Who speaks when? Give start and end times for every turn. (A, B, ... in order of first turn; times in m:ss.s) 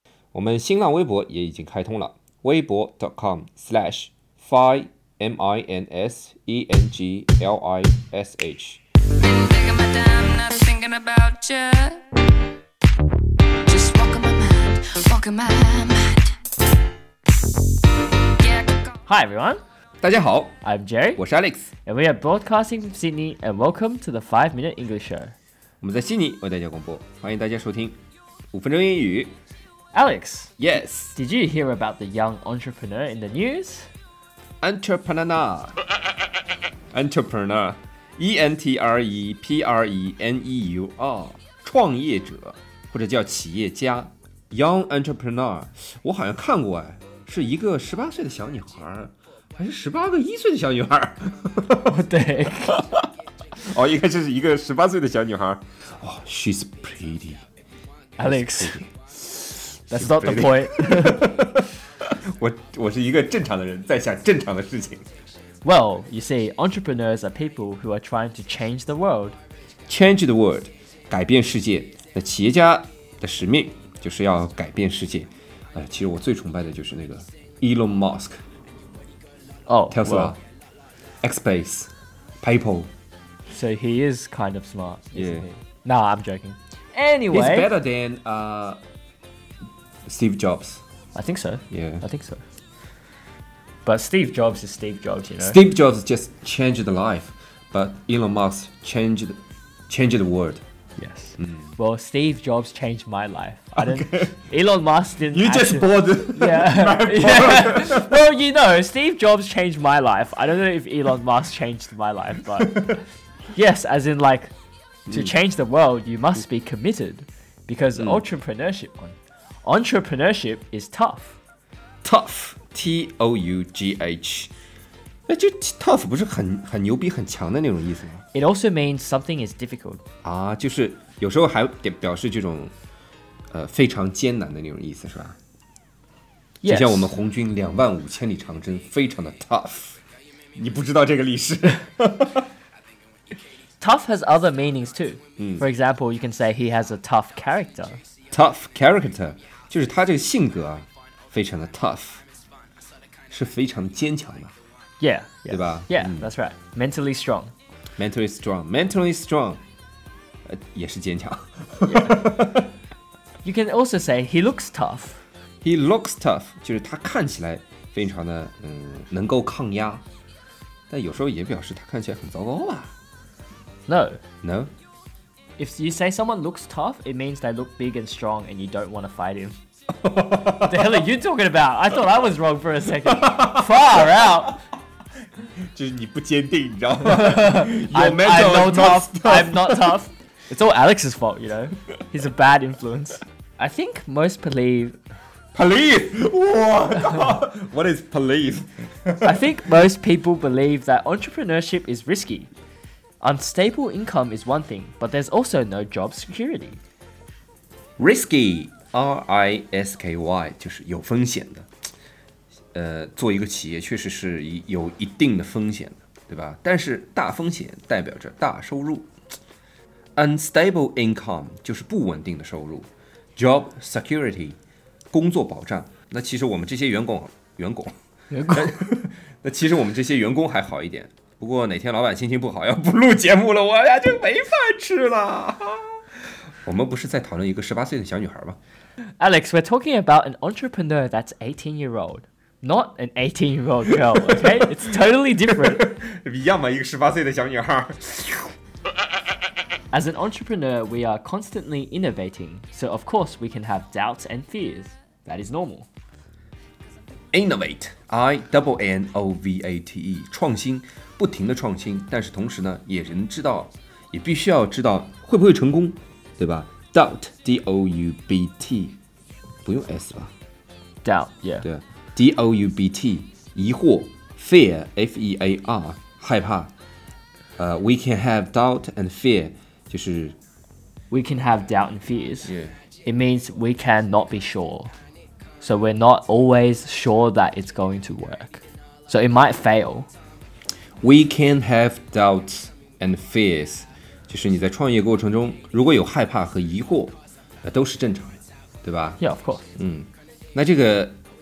0:00.3-0:08.8 A
0:09.2-0:12.0 B
0:13.6-0:16.2 B
0:18.4-0:18.9 B
0:19.0-0:19.6 C
0:20.0-0:20.6 A
0:20.6-0:21.2 C
0:21.2-0:21.7 A
0:21.8-0:25.3 C
0:25.8-0:28.0 A
0:28.5-0:29.3 A
0:29.9-0:33.9 C
0:30.6-0:31.2 A
0:34.6-0:35.8 A
0:36.9-0:51.9 A
0:51.8-0:52.8 C
0:52.7-0:52.9 A
0:53.6-0:57.4 A
0:58.2-0:58.8 C
0:58.2-1:01.8 A
0:59.9-1:01.3 C
1:02.3-1:05.0 A
1:05.6-1:09.4 C
1:09.9-1:18.4 A
1:19.7-1:20.4 C
1:19.9-1:20.4 A
1:21.2-1:21.9 A
1:22.4-1:22.9 A
1:23.5-1:27.7 C
1:25.1-1:25.4 A
1:27.3-1:28.8 A
1:30.0-1:30.8 A
1:31.1-1:32.4 C
1:31.7-1:32.0 A
1:33.8-1:35.6 C
1:35.4-1:40.6 A
1:41.0-1:54.5 C
1:41.4-1:41.7 A
1:43.7-1:44.4 A
1:45.3-1:48.1 A
1:52.6-1:53.0 A
1:55.1-1:55.3 A
1:55.1-2:01.4 C
1:58.0-1:58.2 A
2:02.0-2:04.5 A
2:05.3-2:08.2 A
2:08.3-2:10.0 C
2:10.2-2:12.7 A
2:13.5-2:15.4 A
2:16.6-2:17.1 C
2:16.6-2:20.0 A
2:20.6-2:22.4 A
2:23.8-2:28.0 C
2:25.4-2:25.7 A
2:28.3-2:32.2 A
2:33.3-2:34.5 A
2:35.0-2:37.5 C
2:35.5-2:36.3 A
2:38.0-2:39.6 A
2:40.4-2:42.7 A
2:41.8-2:42.2 C
2:43.4-2:45.2 C
2:45.6-2:50.0 A
2:50.9-2:52.9 A
2:53.9-2:54.2 C
2:54.4-2:54.7 A
2:55.6-2:59.6 C
3:00.0-3:00.8 A
3:00.5-3:04.6 C
3:03.1-3:04.5 A
3:05.7-3:10.0 A
3:07.0-3:15.0 C
3:15.5-3:19.5 A
3:19.2-3:22.5 C
3:23.2-3:26.8 C
3:28.0-3:31.7 A
3:32.7-3:39.1 A
3:40.2-3:44.6 A
3:45.1-3:47.9 A
3:48.3-3:48.8 C
3:48.5-3:56.0 A
3:56.6-3:58.6 A
3:59.2-4:05.9 C
4:04.3-4:04.8 A
4:05.5-4:08.5 A
4:09.9-4:15.9 C
4:17.3-4:29.0 A
4:29.6-4:30.3 A
4:31.0-4:31.7 C
4:31.6-4:36.7 A
4:37.6-4:40.4 A
4:41.1-4:42.5 C
4:42.4-4:42.7 A
4:43.0-4:44.9 C
4:45.6-4:50.1 C
4:51.0-4:59.2 A
4:59.2-4:59.6 C
4:59.8-5:01.2 A